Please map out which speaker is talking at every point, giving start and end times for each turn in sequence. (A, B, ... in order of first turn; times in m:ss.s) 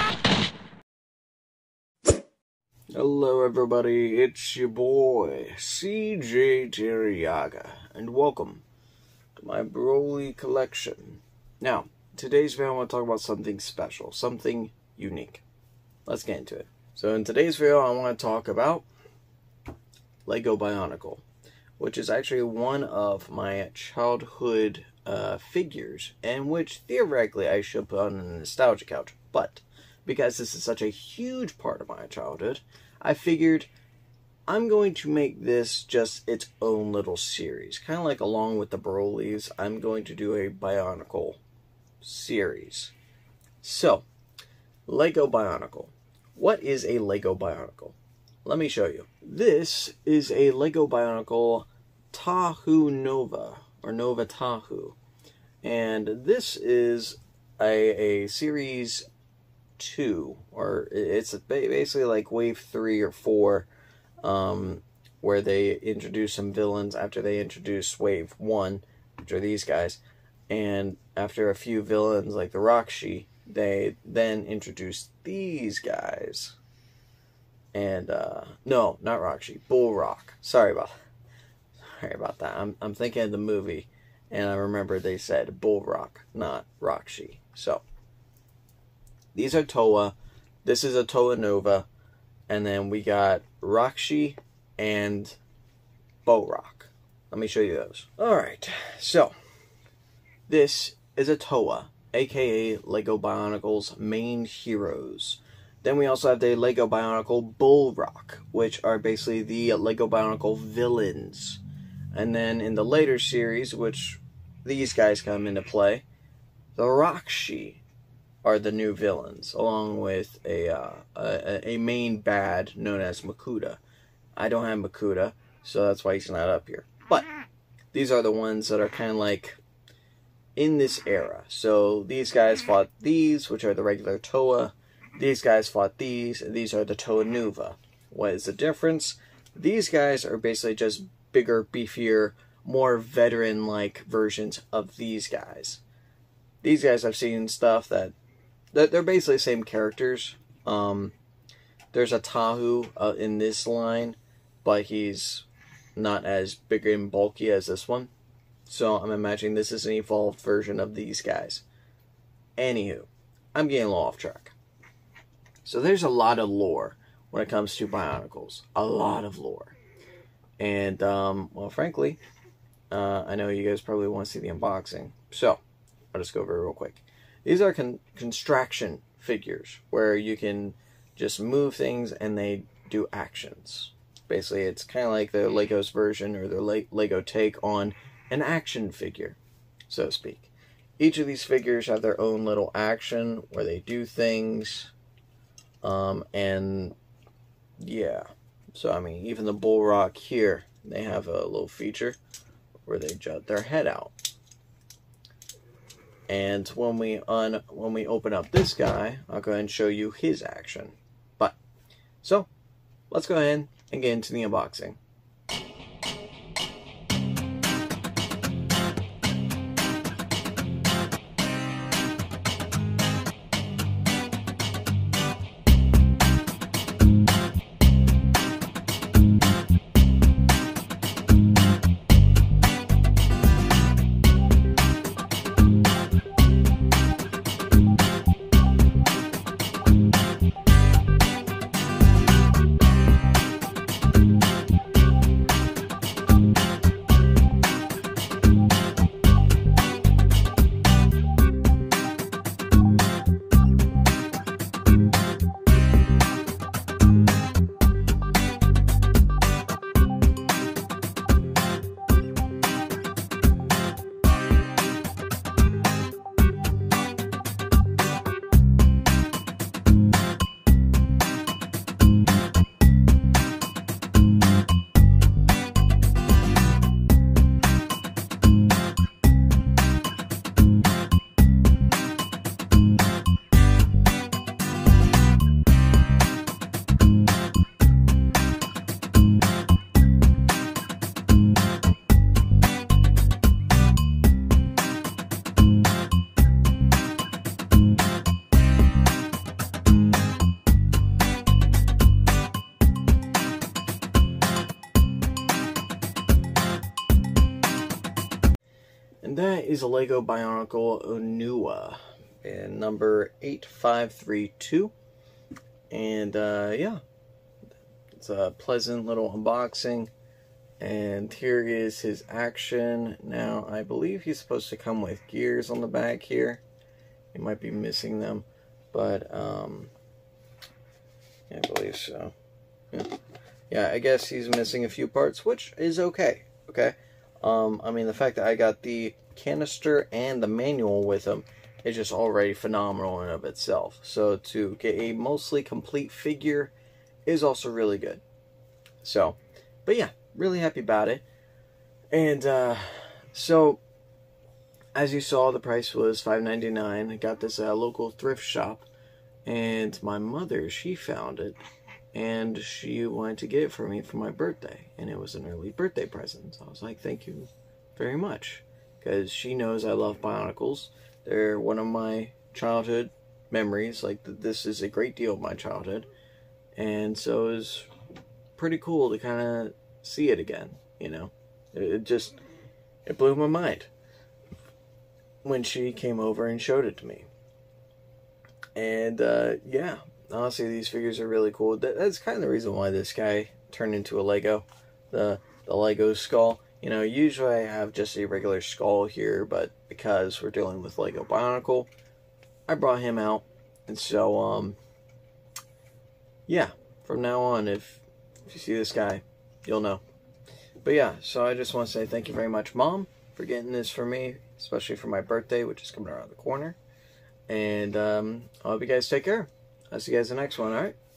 0:02.9-0:08.6 A
0:09.4-0:15.4 A
0:16.1-0:18.9 A
0:20.2-0:21.2 A
0:21.8-0:33.7 A
0:34.5-0:41.4 A
0:42.0-0:42.9 A
0:43.6-0:44.1 A
0:44.9-0:55.0 A
0:55.6-0:59.0 A
0:59.8-1:03.7 A
1:04.2-1:16.6 A
1:17.7-1:20.9 A
1:21.9-1:27.8 A
1:29.3-1:31.9 A
1:32.5-1:35.4 A
1:36.2-1:39.4 A
1:40.5-1:51.6 A
1:52.1-1:56.0 A
1:56.8-1:57.8 A
1:58.4-2:03.8 A
2:04.4-2:07.3 A
2:07.9-2:09.6 A
2:10.6-2:25.8 A
2:26.6-2:28.2 A
2:28.7-2:31.1 A
2:31.9-2:38.1 A
2:38.7-2:41.6 A
2:42.6-2:44.6 A
2:45.6-2:49.8 A
2:50.6-2:52.2 A
2:52.9-2:55.6 A
2:56.1-3:14.9 A
3:15.8-3:17.0 A
3:17.8-3:22.2 A
3:22.8-3:24.1 A
3:26.3-3:31.6 A
3:32.2-3:32.5 A
3:33.1-3:35.0 A
5:09.2-5:14.9 A
5:15.9-5:17.0 A
5:18.1-5:20.1 A
5:20.8-5:26.6 A
5:27.3-5:29.9 A
5:31.5-5:32.3 A
5:33.7-5:46.7 A
5:47.3-5:48.2 A
5:49.0-5:51.2 A
5:52.1-5:53.8 A
5:55.0-5:58.9 A
5:59.4-6:01.6 A
6:02.1-6:16.1 A
6:16.8-6:17.9 A
6:18.6-6:22.4 A
6:23.1-6:23.9 A
6:25.4-6:27.3 A
6:28.8-6:41.9 A
6:42.7-6:44.8 A
6:46.5-6:50.0 A
6:50.8-6:56.8 A
6:57.5-7:01.0 A